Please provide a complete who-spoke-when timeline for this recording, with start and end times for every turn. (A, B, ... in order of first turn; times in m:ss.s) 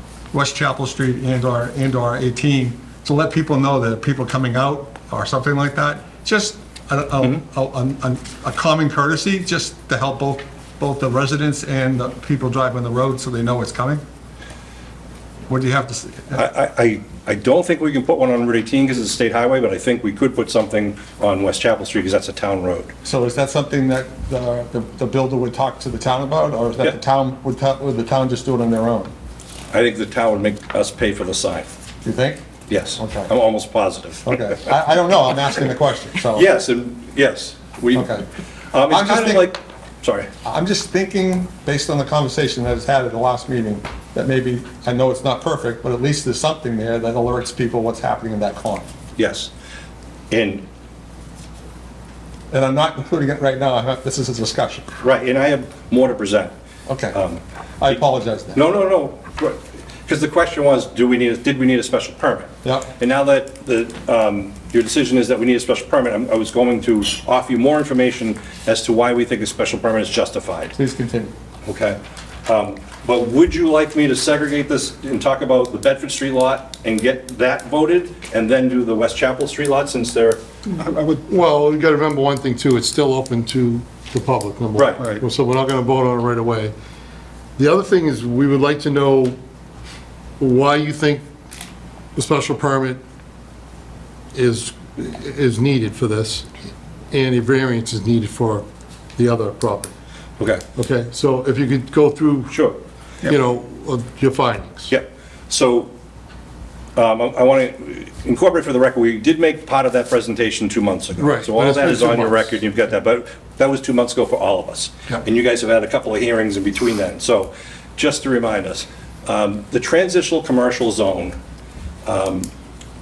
0:00.3-0:14.0 A
0:15.5-0:16.5 A
0:16.3-0:22.9 B
0:23.0-0:29.1 A
0:29.7-0:31.7 B
0:32.0-0:32.4 A
0:32.7-0:34.5 B
0:33.0-0:33.3 A
0:34.2-0:36.5 A
0:36.3-0:38.2 B
0:37.9-0:38.2 A
0:38.7-0:40.3 B
0:38.9-0:39.5 A
0:40.4-0:48.9 A
0:49.2-0:49.5 B
0:50.3-0:50.6 B
0:52.5-0:54.9 A
0:55.0-0:56.5 B
0:56.9-0:57.2 A
0:57.1-0:58.0 B
0:57.8-0:58.6 A
0:58.5-1:10.7 B
1:02.6-1:02.9 A
1:10.7-1:11.3 A
1:11.6-1:20.4 B
1:20.7-1:21.3 A
1:21.3-1:26.7 C
1:24.8-1:25.0 B
1:27.6-1:29.4 C
1:30.4-1:31.2 C
1:32.1-1:33.0 C
1:34.3-1:36.6 C
1:37.1-1:39.9 C
1:40.4-1:40.6 B
1:40.8-1:42.6 C
1:42.5-1:42.8 B
1:43.2-1:44.9 C
1:44.9-1:45.9 B
1:47.0-2:01.4 B
1:51.2-1:52.4 C
2:02.0-2:02.5 B